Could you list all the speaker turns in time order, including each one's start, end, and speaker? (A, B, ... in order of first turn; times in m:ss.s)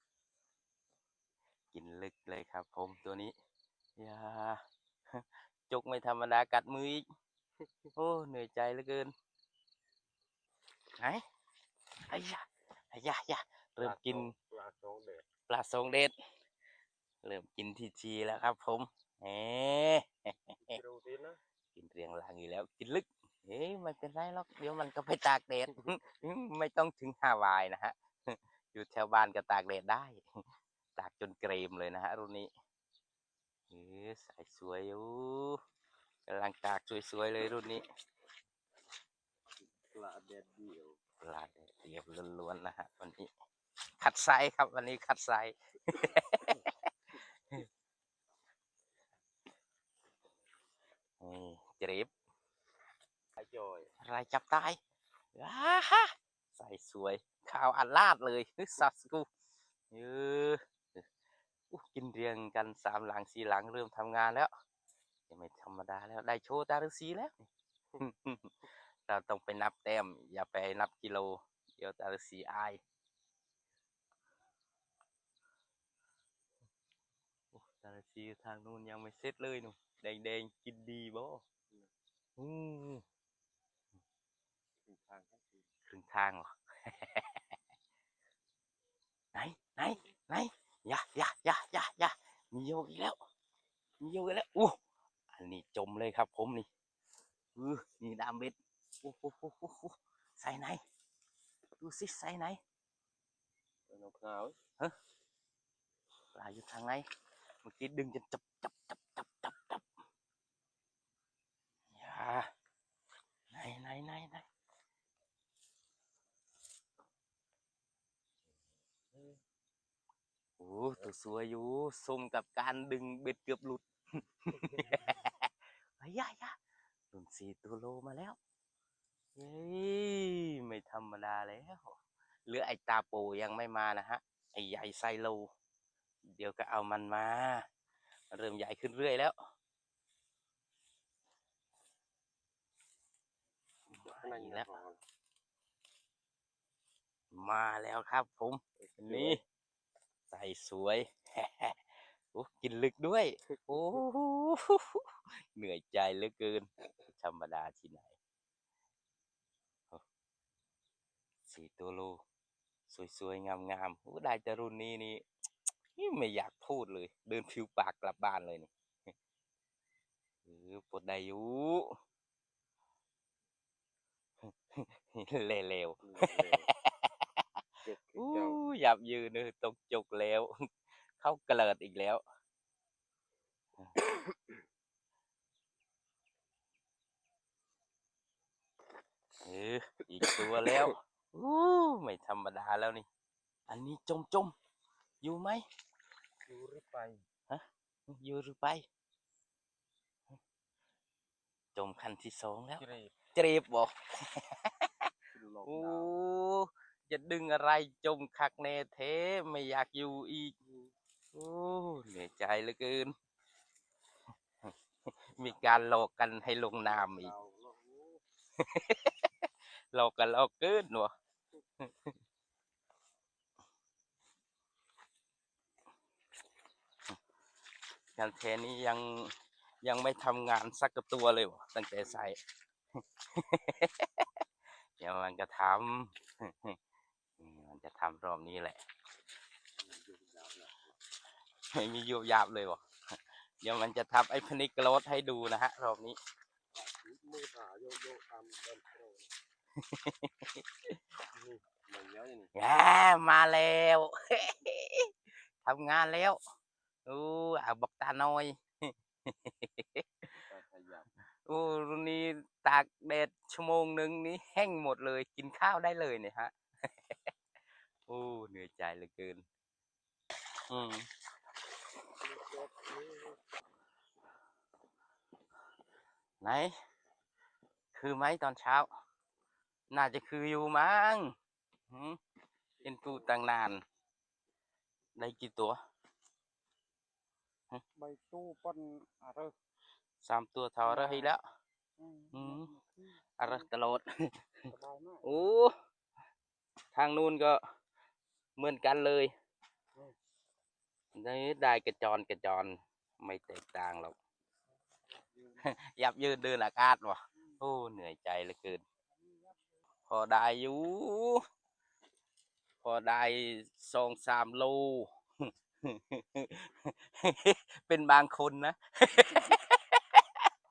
0:01.7-0:03.3 A
0:04.0-0:07.1 A
0:08.0-0:09.1 A
0:11.0-0:11.2 A
0:12.1-0:14.3 A
0:13.8-0:15.3 B
0:15.5-0:16.1 A
0:17.2-0:20.5 A
0:20.6-0:21.4 B
0:21.8-0:30.2 A
0:31.0-0:32.5 A
0:33.7-0:35.6 A
0:36.3-0:37.8 A
0:39.8-0:41.0 B
0:41.2-0:43.3 A
0:44.0-0:46.9 A
0:51.2-0:52.1 A
0:53.4-0:53.9 B
0:54.0-0:54.8 A
0:55.4-0:59.3 A
0:59.9-1:01.0 A
1:01.7-1:04.5 A
1:05.3-1:07.4 A
1:08.0-1:08.6 A
1:09.1-1:12.8 A
1:17.5-1:21.4 A
1:22.4-1:23.0 A
1:24.8-1:25.7 B
1:25.9-1:27.4 A
1:29.3-1:33.2 A
1:34.0-1:34.8 A
1:35.3-1:36.7 A
1:37.6-1:40.8 A
1:41.8-1:42.6 A
1:43.9-1:44.6 B
1:46.4-1:47.0 A
1:47.6-1:49.9 A
1:52.0-1:52.5 A
1:53.5-1:54.4 A
2:00.6-2:06.6 A
2:04.7-2:05.0 B
2:07.1-2:08.4 A
2:09.4-2:11.9 A
2:12.5-2:15.5 A
2:16.4-2:17.6 A
2:18.3-2:19.4 A
2:23.9-2:24.7 A
2:24.0-2:25.0 B
2:27.3-2:29.4 A
2:28.8-2:29.4 B
2:30.3-2:31.8 A
2:32.3-2:38.1 A
2:41.5-2:42.2 A
2:42.9-2:45.2 A
2:46.0-2:48.7 A
2:50.5-2:52.0 A
2:54.5-2:57.4 A
2:56.0-2:56.7 B
2:57.8-2:58.6 B
2:58.2-3:00.5 A
3:01.2-3:02.2 A
3:09.4-3:13.1 A
3:10.2-3:10.9 B
3:13.7-3:14.5 A
3:15.2-3:15.6 A
3:16.5-3:17.2 B
3:17.5-3:18.9 A
3:21.8-3:25.1 A
3:22.8-3:23.2 B
3:25.3-3:26.1 B
3:25.6-3:30.6 A
3:30.6-3:30.9 B
3:31.3-3:33.1 A
3:34.6-3:37.3 A
3:36.8-3:38.2 B
3:38.6-3:39.3 A
3:39.9-3:41.1 A
3:41.8-3:42.1 A
3:48.2-3:52.4 A
3:53.3-3:54.3 A
3:55.0-3:56.8 A
3:57.4-3:58.8 A
3:59.8-4:00.9 B
4:01.7-4:02.8 A
4:03.6-4:06.2 A
4:06.7-4:09.3 B
4:09.8-4:11.0 A
4:11.3-4:12.5 B
4:12.6-4:15.1 A
4:15.6-4:16.4 A
4:17.1-4:20.1 A
4:20.4-4:21.1 B
4:21.5-4:26.5 A
4:28.1-4:29.4 A
4:30.7-4:31.1 A
4:32.3-4:33.4 C
4:36.4-4:36.8 A
4:37.9-4:38.9 A
4:39.9-4:41.3 A
4:41.9-4:42.2 A
4:42.8-4:43.8 A
4:45.2-4:45.8 A
4:48.0-4:49.5 C
4:50.2-4:51.4 A
4:50.8-4:51.3 C
4:52.0-4:53.7 C
4:52.3-4:52.7 A
4:53.4-4:54.7 A
4:54.7-4:55.2 C
4:55.2-4:55.8 A
4:57.0-4:57.6 A
4:58.6-4:59.3 A
5:01.2-5:04.2 A
5:05.6-5:08.8 A
5:10.1-5:11.4 A
5:12.8-5:20.2 A